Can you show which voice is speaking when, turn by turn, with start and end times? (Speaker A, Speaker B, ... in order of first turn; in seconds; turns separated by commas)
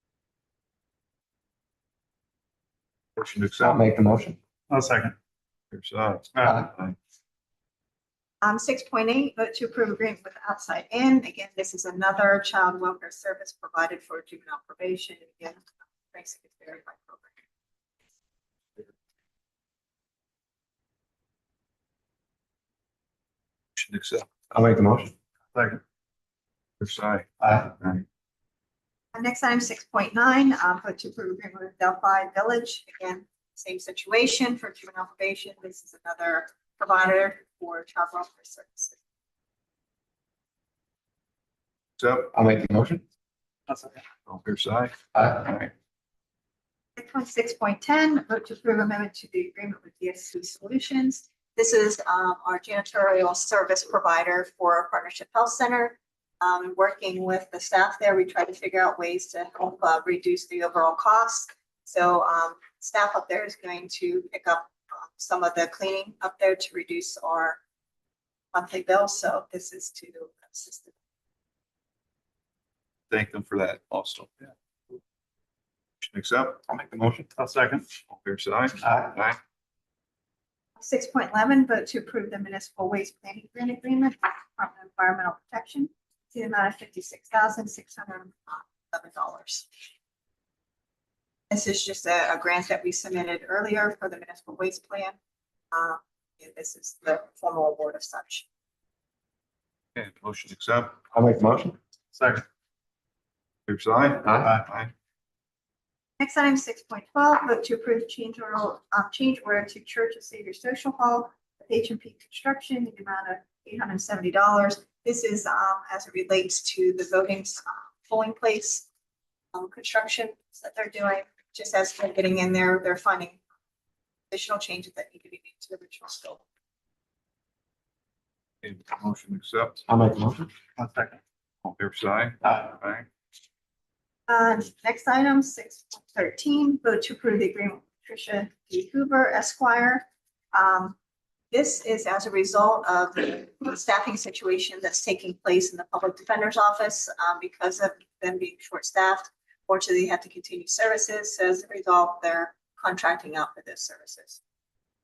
Speaker A: 3.2-3.8, Speaker B: 3.6-4.4, Speaker C: 4.7-5.2, Speaker A: 5.7-7.0, Speaker B: 6.4-6.7, Speaker D: 8.4-17.4, Speaker A: 23.8-24.3, Speaker B: 24.5-25.1, Speaker C: 25.5-25.8, Speaker A: 26.8-28.0, Speaker C: 27.4-27.7, Speaker D: 29.1-39.0, Speaker A: 42.0-42.3, Speaker B: 42.3-43.0, Speaker C: 43.7-44.0, Speaker A: 44.3-45.7, Speaker D: 47.0-67.6, Speaker D: 68.5-70.9, Speaker A: 73.1-74.3, Speaker A: 76.0-76.6, Speaker B: 76.7-77.3, Speaker C: 77.4-77.8, Speaker A: 78.1-79.4, Speaker D: 80.8-89.7, Speaker D: 91.5-95.2, Speaker D: 95.7-98.5, Speaker A: 100.0-101.0, Speaker B: 101.1-101.8, Speaker C: 102.1-102.4, Speaker A: 103.7-104.9, Speaker D: 106.2-118.8, Speaker D: 119.5-123.4, Speaker D: 124.3-126.4, Speaker A: 128.6-129.8, Speaker B: 129.9-130.5, Speaker C: 130.8-131.2, Speaker A: 131.6-133.1, Speaker C: 132.4-132.7, Speaker D: 134.3-140.9, Speaker D: 141.5-154.4